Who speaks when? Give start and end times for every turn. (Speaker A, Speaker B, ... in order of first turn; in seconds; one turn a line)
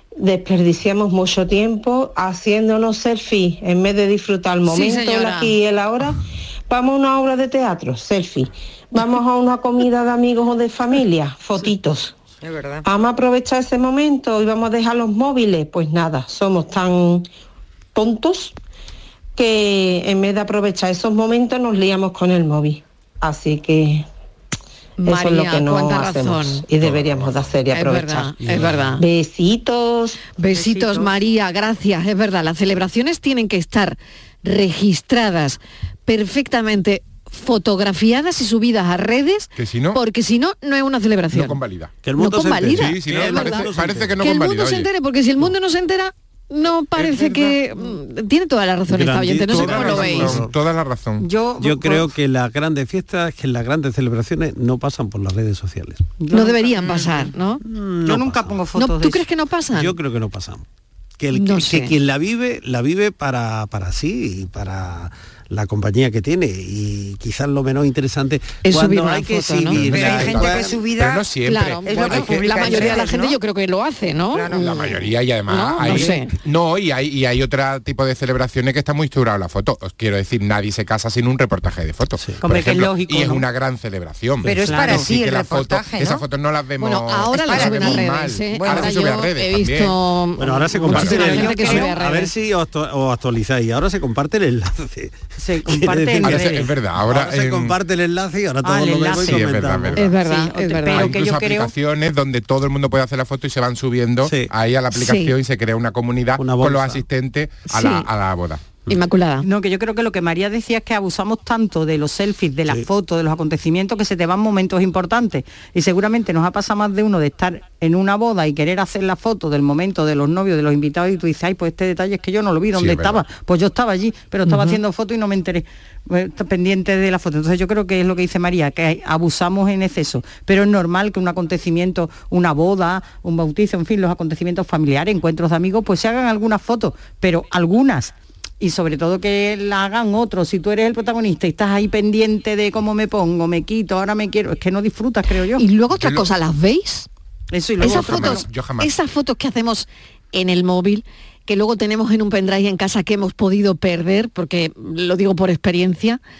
Speaker A: 0.2-12.2
Speaker B: 4.7-5.6
Speaker C: 12.4-12.9
Speaker A: 12.8-17.3
Speaker A: 17.9-18.6
Speaker A: 19.4-24.1
Speaker B: 25.0-26.7
Speaker A: 25.0-28.4
Speaker D: 26.8-27.4
Speaker B: 27.7-29.0
Speaker E: 28.4-28.9
Speaker A: 29.0-30.2
Speaker B: 30.3-41.6
Speaker F: 30.5-31.2
Speaker D: 39.6-40.0
Speaker D: 41.3-42.0
Speaker E: 42.0-44.2
Speaker B: 42.1-50.4
Speaker D: 42.7-44.9
Speaker D: 47.0-47.6
Speaker E: 48.9-50.5
Speaker D: 49.5-51.3
Speaker F: 51.2-52.1
Speaker E: 51.6-56.0
Speaker F: 56.2-57.3
Speaker B: 56.3-57.6
Speaker E: 57.6-58.6
Speaker F: 58.0-59.3
Speaker B: 58.8-60.0
Speaker E: 59.7-60.6
Speaker E: 61.2-70.8
Speaker B: 61.3-62.0
Speaker B: 68.6-69.9
Speaker D: 69.7-73.1
Speaker C: 69.8-73.4
Speaker B: 71.4-76.3
Speaker C: 74.3-75.0
Speaker D: 74.5-90.0
Speaker F: 82.4-83.5
Speaker C: 84.4-86.2
Speaker F: 84.6-85.1
Speaker B: 86.8-92.3
Speaker C: 87.3-89.0
Speaker E: 90.4-100.1
Speaker F: 90.9-92.0
Speaker D: 90.9-91.3
Speaker F: 95.4-96.7
Speaker D: 96.2-97.8
Speaker F: 98.6-99.5
Speaker D: 99.1-100.1
Speaker B: 100.0-101.2
Speaker F: 100.1-101.7
Speaker D: 100.9-108.7
Speaker E: 104.2-104.5
Speaker B: 104.9-105.4
Speaker E: 106.4-107.0
Speaker B: 107.7-108.1
Speaker B: 108.9-109.5
Speaker F: 109.4-145.7
Speaker D: 122.8-123.2
Speaker B: 124.5-124.8
Speaker B: 145.6-147.1
Speaker D: 145.9-146.3
Speaker F: 147.5-148.5
Speaker B: 147.8-156.2
Speaker D: 147.8-148.9